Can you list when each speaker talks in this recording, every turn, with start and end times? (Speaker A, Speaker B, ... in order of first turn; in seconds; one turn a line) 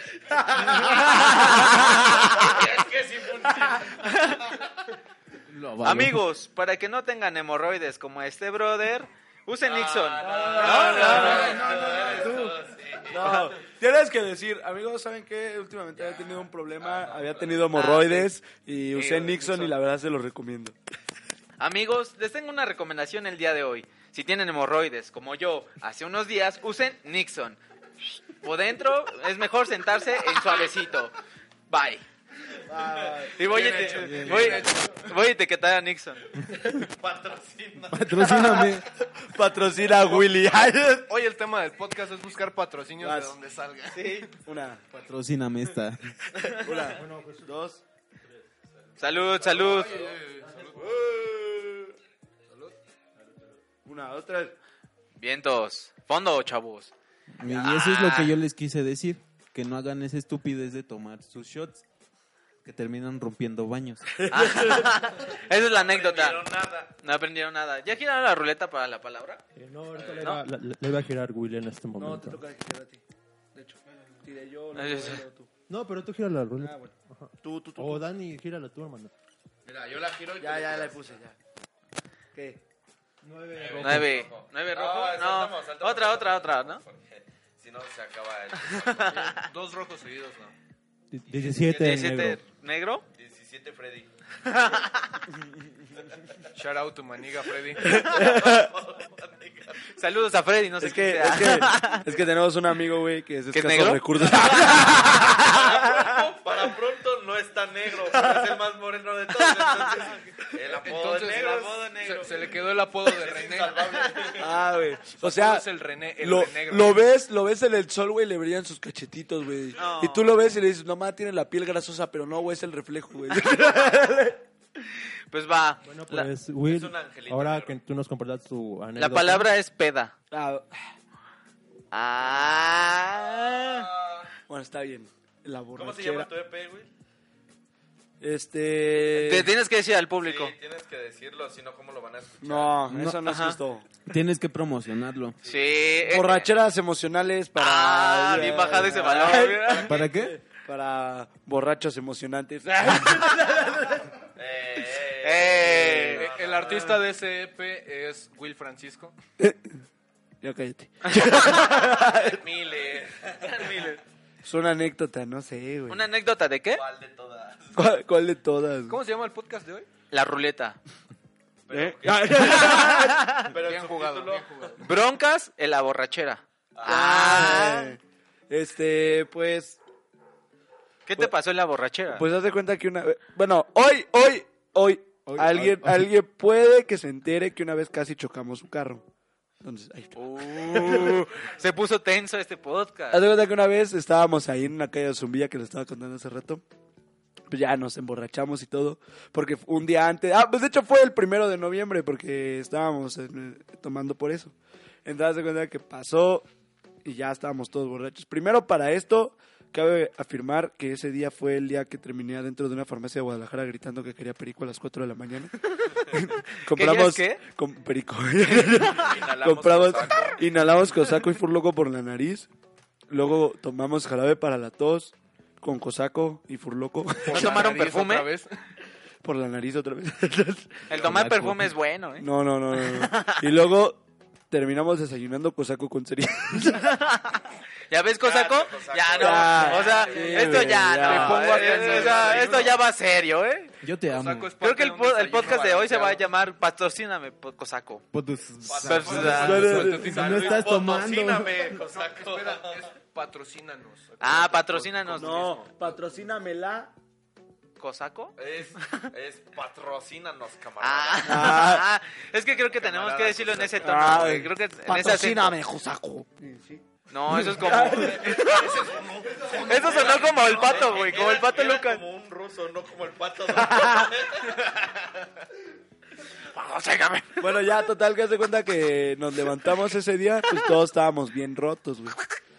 Speaker A: 0.3-2.7
Speaker B: 0.8-4.7
Speaker C: 0.9-2.6
Speaker C: 4.0-4.5
Speaker D: 5.5-6.3
Speaker C: 5.8-11.6
Speaker B: 9.6-13.6
Speaker A: 10.2-20.8
Speaker E: 10.9-11.6
Speaker B: 15.9-17.6
Speaker C: 17.7-18.3
Speaker C: 18.9-19.8
Speaker C: 21.6-31.1
Speaker C: 31.7-32.0
Speaker A: 32.6-33.4
Speaker B: 32.7-34.5
Speaker C: 33.4-36.3
Speaker E: 33.4-35.1
Speaker D: 34.0-34.6
Speaker B: 36.4-38.7
Speaker D: 37.9-38.9
Speaker A: 38.2-41.1
Speaker E: 39.9-40.4
Speaker E: 41.1-44.3
Speaker A: 43.0-43.4
Speaker C: 43.9-44.3
Speaker A: 44.4-44.8
Speaker D: 44.9-46.2
Speaker A: 46.4-47.8
Speaker F: 46.9-47.6
Speaker F: 48.2-48.5
Speaker C: 49.0-50.0
Speaker B: 49.0-50.2
Speaker E: 49.4-51.0
Speaker F: 50.4-50.9
Speaker B: 50.7-51.9
Speaker E: 52.5-52.8
Speaker F: 53.2-53.6
Speaker A: 53.8-54.5
Speaker C: 55.2-56.9
Speaker D: 57.3-61.8
Speaker C: 57.4-58.3
Speaker D: 62.6-64.1
Speaker A: 64.2-65.0
Speaker C: 64.3-66.4
Speaker B: 65.3-66.9
Speaker C: 67.0-69.4
Speaker F: 69.5-72.4
Speaker B: 69.9-70.3
Speaker A: 72.0-73.0
Speaker A: 73.5-75.5
Speaker C: 74.7-75.2
Speaker F: 75.7-79.1
Speaker A: 76.6-76.9
Speaker A: 77.4-78.1
Speaker B: 79.6-81.2
Speaker A: 80.4-81.3
Speaker A: 82.3-82.6
Speaker F: 83.2-84.3
Speaker B: 83.5-89.4
Speaker C: 83.8-86.8
Speaker C: 88.7-89.4
Speaker E: 89.0-90.5
Speaker F: 91.1-92.4
Speaker B: 91.3-92.2
Speaker C: 91.7-93.0
Speaker B: 93.1-94.1
Speaker C: 94.5-95.2
Speaker E: 96.5-98.0
Speaker A: 97.8-98.7
Speaker B: 97.8-99.9
Speaker C: 100.0-102.0
Speaker A: 100.8-106.2
Speaker C: 103.5-105.3
Speaker B: 104.2-112.5
Speaker A: 108.1-108.5
Speaker C: 109.4-110.0
Speaker E: 110.7-114.1
Speaker C: 111.2-112.4
Speaker B: 113.0-114.6
Speaker A: 114.3-115.7
Speaker E: 115.2-117.0
Speaker A: 116.2-124.4
Speaker C: 119.8-120.3
Speaker C: 124.8-126.3
Speaker F: 125.8-129.5
Speaker B: 126.6-127.8
Speaker C: 129.0-130.1
Speaker A: 130.3-130.7
Speaker C: 131.9-133.9
Speaker B: 133.6-134.3
Speaker A: 134.5-136.3
Speaker B: 135.7-136.9
Speaker A: 138.2-139.5
Speaker C: 139.1-140.5
Speaker B: 140.2-142.8
Speaker A: 142.4-143.9
Speaker D: 142.9-143.2
Speaker C: 143.2-143.6
Speaker D: 144.1-145.4
Speaker C: 145.4-146.5
Speaker B: 145.4-145.8
Speaker A: 146.0-154.1
Speaker C: 147.6-150.0
Speaker D: 149.8-150.4
Speaker B: 154.3-157.0
Speaker C: 155.2-156.3
Speaker A: 155.6-156.2
Speaker E: 156.1-159.1
Speaker A: 159.4-159.8
Speaker A: 160.4-162.4
Speaker B: 162.0-163.9
Speaker C: 163.4-164.0
Speaker A: 164.4-166.1
Speaker C: 165.9-166.8
Speaker B: 166.7-167.8
Speaker A: 167.7-169.0
Speaker E: 168.9-169.9
Speaker C: 170.1-170.8
Speaker B: 171.7-174.8
Speaker A: 171.7-173.4
Speaker C: 172.3-173.5
Speaker E: 173.5-174.9
Speaker C: 174.8-177.9
Speaker B: 176.7-177.0
Speaker A: 176.8-179.8
Speaker C: 181.1-182.2
Speaker A: 182.1-189.1
Speaker D: 185.2-186.1
Speaker A: 189.6-191.3
Speaker C: 190.2-193.2
Speaker A: 193.1-196.6
Speaker A: 197.5-206.5
Speaker A: 207.0-222.5
Speaker C: 216.7-217.4
Speaker B: 218.5-220.8
Speaker A: 223.1-227.6
Speaker E: 227.2-228.5
Speaker C: 227.3-228.3
Speaker A: 229.2-230.9
Speaker C: 230.9-233.5
Speaker D: 230.9-231.7
Speaker A: 232.2-236.9
Speaker C: 236.8-243.7
Speaker B: 238.2-242.7
Speaker A: 239.2-241.6
Speaker E: 240.9-242.8
Speaker D: 243.8-244.5
Speaker E: 244.1-246.2
Speaker C: 244.6-248.0
Speaker D: 248.1-251.7
Speaker B: 248.6-252.9
Speaker C: 248.8-249.7
Speaker E: 248.9-250.8
Speaker A: 249.3-250.2
Speaker E: 251.8-255.9
Speaker C: 254.2-255.6
Speaker A: 255.2-256.9
Speaker C: 257.8-259.1
Speaker B: 258.4-261.7
Speaker C: 260.8-265.6
Speaker A: 261.2-261.9
Speaker E: 262.6-264.1
Speaker A: 263.8-268.6
Speaker C: 267.1-268.9
Speaker B: 267.8-275.2
Speaker E: 268.2-271.0
Speaker C: 269.5-272.0
Speaker A: 273.5-274.1
Speaker C: 276.3-277.6
Speaker A: 277.4-282.2